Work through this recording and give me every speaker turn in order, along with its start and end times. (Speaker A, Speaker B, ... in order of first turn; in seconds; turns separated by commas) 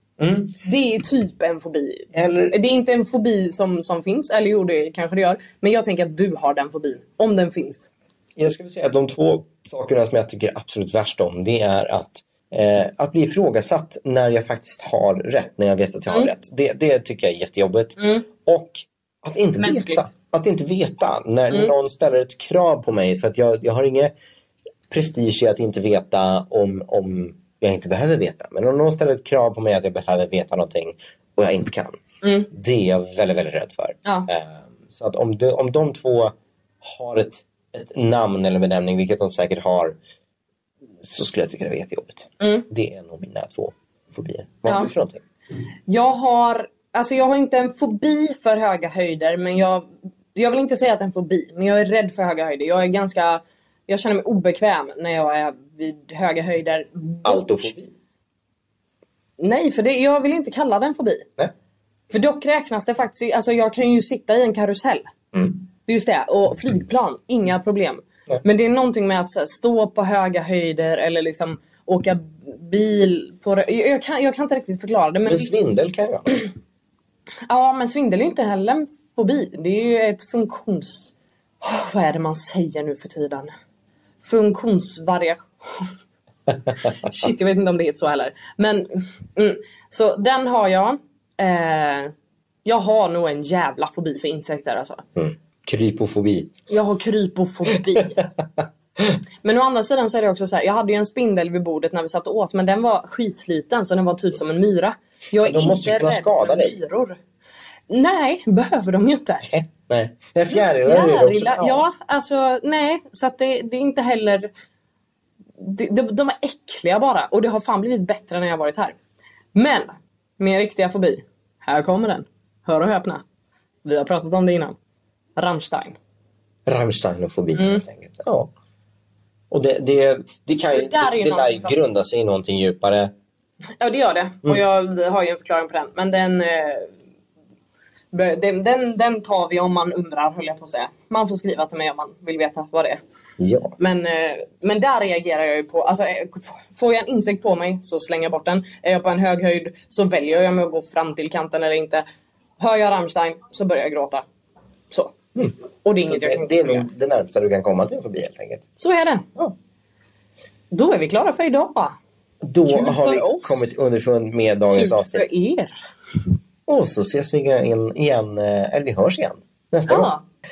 Speaker A: 0.2-0.6, Speaker B: 0.6-7.9, Speaker A: 2.1-2.5, Speaker A: 8.4-24.1, Speaker B: 18.0-18.2, Speaker B: 19.6-20.0, Speaker B: 21.5-21.7, Speaker A: 24.9-32.0, Speaker B: 32.2-32.5, Speaker A: 32.5-40.0, Speaker A: 41.0-45.2, Speaker B: 42.4-42.6, Speaker B: 44.6-44.9, Speaker B: 45.9-57.6, Speaker A: 57.2-57.9, Speaker B: 59.4-61.3, Speaker B: 62.1-65.1, Speaker A: 65.3-65.6, Speaker B: 65.8-75.5, Speaker A: 75.2-76.4, Speaker B: 77.5-83.5, Speaker B: 84.2-85.9, Speaker B: 86.7-92.1, Speaker B: 92.6-95.0, Speaker A: 95.2-96.5, Speaker B: 96.7-98.2, Speaker B: 99.4-107.2, Speaker A: 105.4-106.8, Speaker B: 107.9-109.5, Speaker A: 109.5-111.8, Speaker B: 110.5-114.5, Speaker B: 115.6-119.0, Speaker B: 119.5-123.2, Speaker B: 123.8-124.8, Speaker B: 125.4-126.0, Speaker A: 126.7-128.5, Speaker B: 127.5-127.8, Speaker A: 129.5-133.1, Speaker B: 130.7-131.8, Speaker B: 133.8-136.9, Speaker B: 138.1-143.0, Speaker A: 143.4-143.8, Speaker B: 143.8-152.0, Speaker B: 152.6-154.2, Speaker B: 154.9-155.2, Speaker B: 155.8-156.9, Speaker A: 156.1-158.7, Speaker B: 158.8-159.2, Speaker B: 160.7-161.9, Speaker A: 162.4-165.3, Speaker B: 162.7-163.7, Speaker B: 164.7-165.8, Speaker A: 166.7-170.1, Speaker B: 169.9-170.2